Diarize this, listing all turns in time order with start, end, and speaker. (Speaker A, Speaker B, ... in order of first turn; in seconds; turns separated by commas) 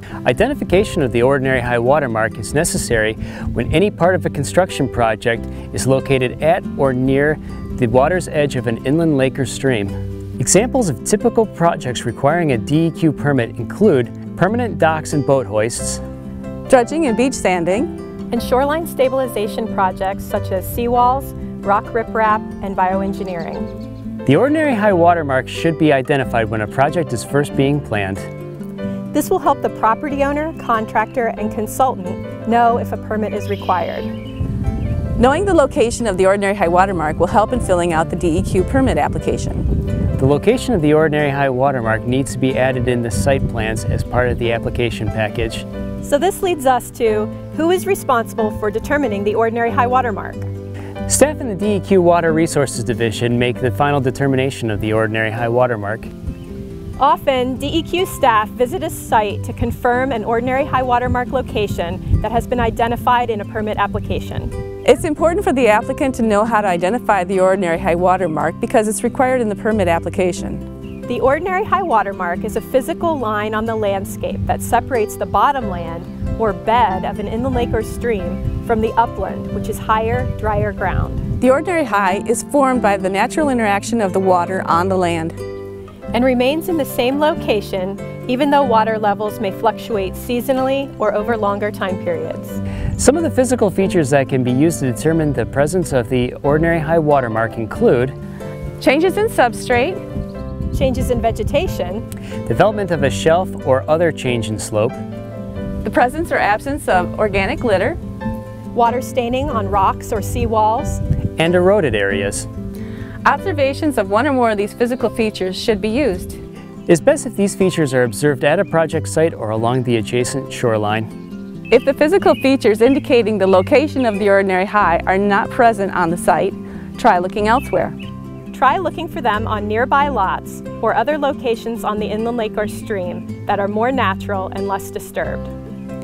Speaker A: 0.2-16.0, Speaker B: 16.7-17.9, Speaker C: 18.3-23.7, Speaker A: 24.3-28.3, Speaker C: 29.1-34.1, Speaker B: 35.2-39.7, Speaker A: 40.2-45.7, Speaker C: 46.0-50.5, Speaker A: 51.1-56.1, Speaker C: 57.0-64.5, Speaker B: 64.8-70.6, Speaker C: 71.1-81.3, Speaker B: 81.4-85.4, Speaker C: 86.1-92.6, Speaker A: 93.0-98.2, Speaker B: 98.8-100.0, Speaker C: 100.7-102.0, Speaker A: 102.5-105.0, Speaker B: 105.8-108.0, Speaker C: 108.7-111.0, Speaker A: 111.4-112.5, Speaker B: 113.2-116.4, Speaker A: 116.9-121.1, Speaker B: 121.7-128.0, Speaker C: 128.5-135.5